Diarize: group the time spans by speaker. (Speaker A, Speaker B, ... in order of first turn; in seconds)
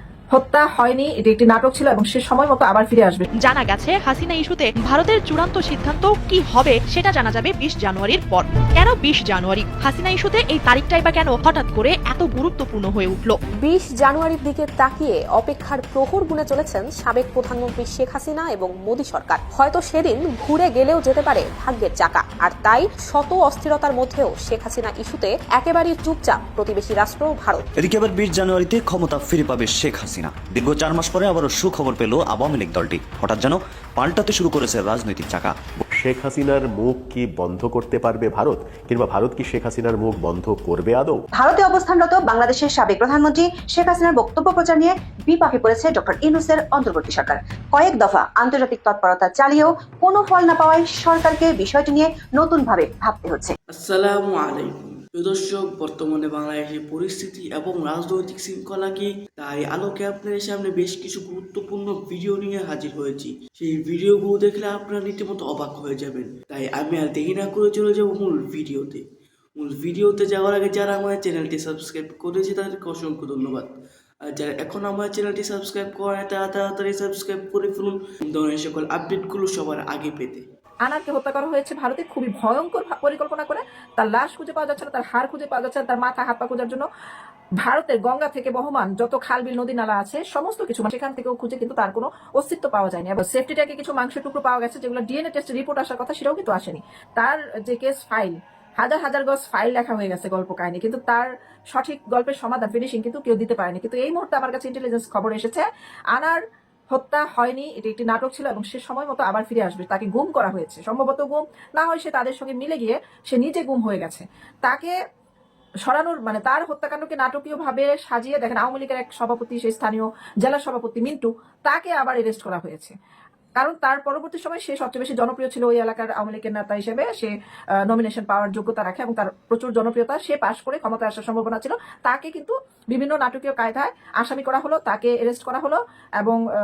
Speaker A: 0.3-3.3, 80.8-86.8, 87.6-106.4, 106.9-114.9, 115.9-122.9, 123.6-127.3, 127.9-136.4
Speaker B: 3.4-13.4
Speaker C: 13.6-27.6
Speaker D: 27.8-35.5
Speaker E: 35.9-41.2
Speaker F: 41.3-53.5
Speaker G: 53.7-69.0, 69.6-73.7, 74.3-80.5